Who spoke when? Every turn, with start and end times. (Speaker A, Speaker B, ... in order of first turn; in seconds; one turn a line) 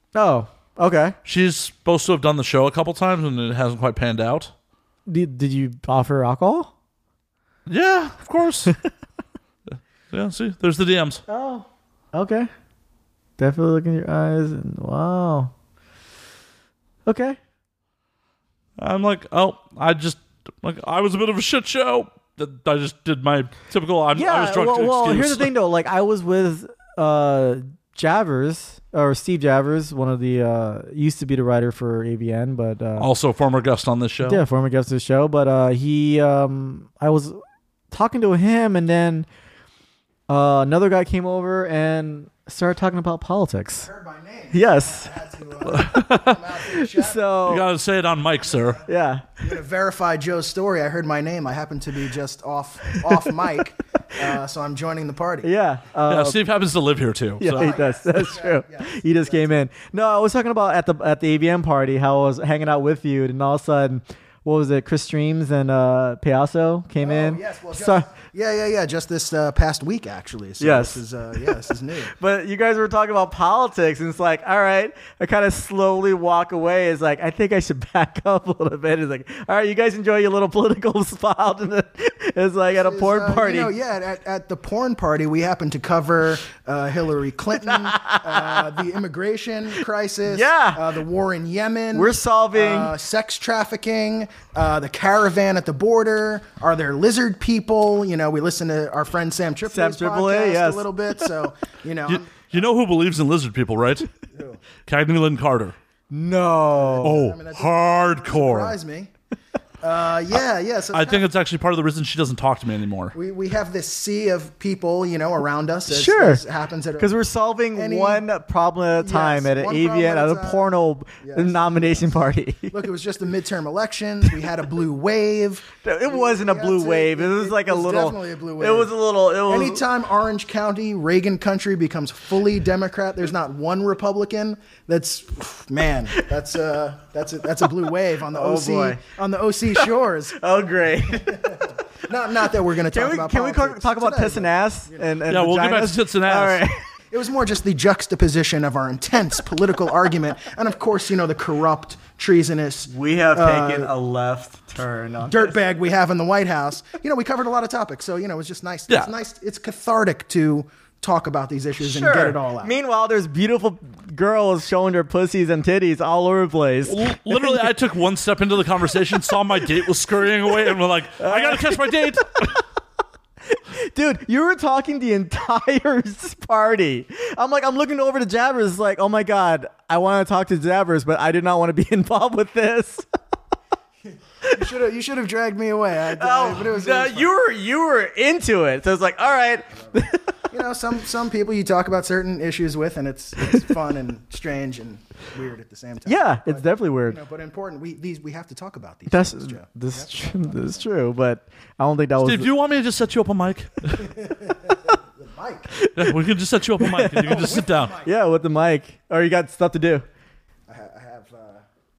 Speaker A: 0.1-1.1
Speaker B: 1.2-4.5
Speaker A: 5.0-6.7
Speaker B: 7.7-8.7
Speaker B: 10.1-11.2
Speaker A: 11.3-12.5
Speaker A: 13.4-15.5
Speaker A: 17.1-17.4
Speaker B: 18.8-25.5
Speaker A: 24.1-33.1
Speaker B: 33.0-34.4
Speaker A: 34.2-37.4
Speaker A: 37.9-39.2
Speaker A: 40.3-43.9
Speaker C: 43.8-47.6
Speaker A: 44.5-45.1
Speaker B: 45.6-46.4
Speaker A: 46.7-47.6
Speaker B: 47.5-48.8
Speaker C: 48.4-48.9
Speaker A: 48.8-49.5
Speaker C: 49.4-55.5
Speaker A: 55.4-56.4
Speaker B: 56.1-57.7
Speaker A: 57.4-68.1
Speaker C: 57.5-59.6
Speaker C: 67.0-72.1
Speaker A: 70.6-71.5
Speaker A: 72.0-83.7
Speaker C: 82.7-102.6
Speaker A: 87.6-88.7
Speaker A: 90.2-91.0
Speaker A: 91.9-93.0
Speaker A: 99.7-100.9
Speaker B: 102.0-104.1
Speaker C: 104.3-104.6
Speaker B: 104.8-105.7
Speaker A: 106.1-107.2
Speaker C: 106.7-109.1
Speaker B: 107.0-108.8
Speaker C: 109.8-111.3
Speaker B: 110.9-113.1
Speaker C: 113.1-117.1
Speaker A: 115.9-116.4
Speaker A: 117.0-122.7
Speaker C: 117.7-118.2
Speaker C: 118.9-122.1
Speaker C: 122.7-128.9
Speaker A: 125.8-129.8
Speaker C: 129.5-140.4
Speaker A: 138.3-139.0
Speaker A: 139.7-141.6
Speaker C: 141.1-145.1
Speaker A: 142.8-146.8
Speaker B: 145.3-146.6
Speaker C: 147.1-153.9
Speaker A: 152.9-155.6
Speaker C: 155.3-162.7
Speaker A: 161.8-167.7
Speaker B: 166.8-172.6
Speaker A: 171.2-172.0
Speaker A: 173.5-183.1
Speaker C: 184.4-187.3
Speaker A: 186.1-190.3
Speaker C: 190.5-200.9
Speaker A: 196.1-197.2
Speaker A: 199.1-202.5
Speaker B: 202.2-204.1
Speaker C: 204.0-205.8
Speaker A: 205.8-206.2
Speaker B: 205.9-207.9
Speaker A: 206.8-207.5
Speaker C: 207.2-208.1
Speaker A: 208.0-210.0
Speaker C: 210.7-211.6